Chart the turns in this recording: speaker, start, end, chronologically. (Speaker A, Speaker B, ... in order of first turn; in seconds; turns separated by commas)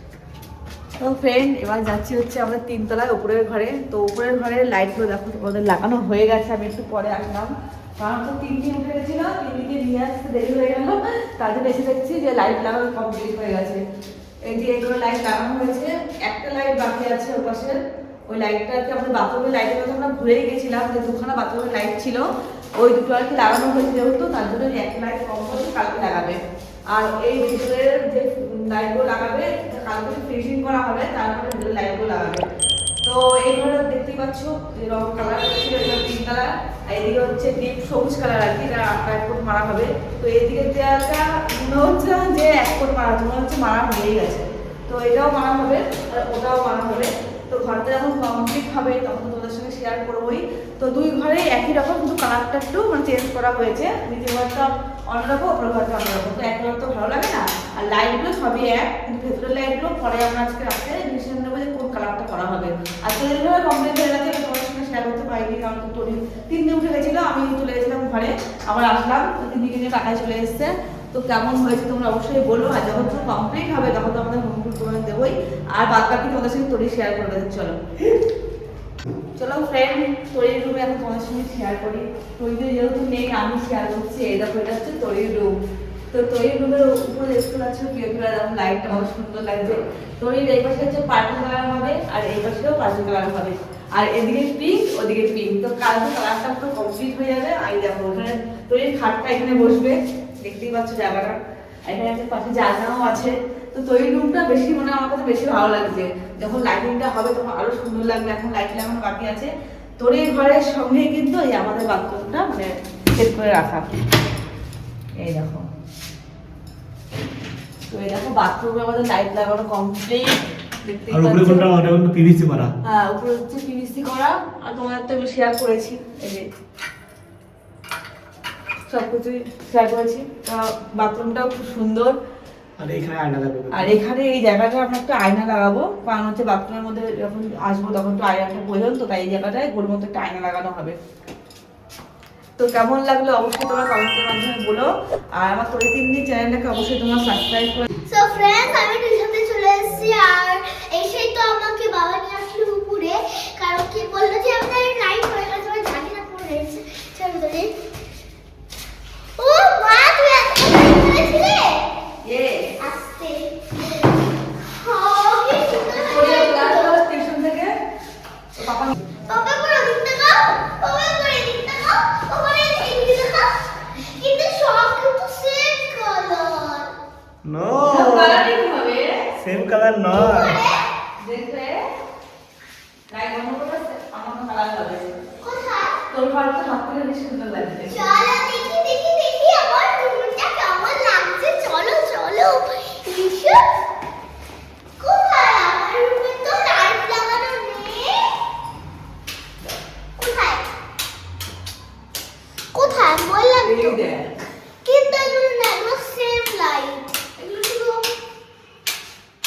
Speaker A: 1.0-13.8, Speaker A: 14.4-17.8, Speaker A: 18.3-22.2, Speaker A: 22.8-26.4, Speaker A: 26.9-32.4, Speaker A: 33.0-77.8, Speaker A: 79.3-85.5, Speaker A: 86.1-113.9, Speaker A: 115.2-115.7, Speaker A: 117.9-121.7, Speaker B: 121.1-122.7, Speaker A: 122.8-126.5, Speaker A: 128.9-132.2, Speaker B: 132.8-133.9, Speaker A: 133.7-140.9, Speaker A: 142.6-147.9, Speaker C: 148.1-157.7, Speaker C: 159.4-161.8, Speaker A: 162.2-162.7, Speaker C: 162.8-164.1, Speaker C: 164.7-167.0, Speaker A: 166.0-167.7, Speaker A: 168.6-168.9, Speaker C: 169.3-173.5, Speaker C: 174.1-176.9, Speaker B: 177.4-178.4, Speaker A: 177.8-179.2, Speaker B: 179.4-180.6, Speaker C: 180.1-180.8, Speaker A: 181.2-181.8, Speaker A: 183.1-185.1, Speaker C: 185.4-186.0, Speaker A: 186.1-188.1, Speaker C: 187.8-193.6, Speaker C: 195.0-198.3, Speaker C: 200.2-200.7, Speaker C: 202.7-204.0, Speaker A: 203.6-204.4, Speaker C: 204.8-208.0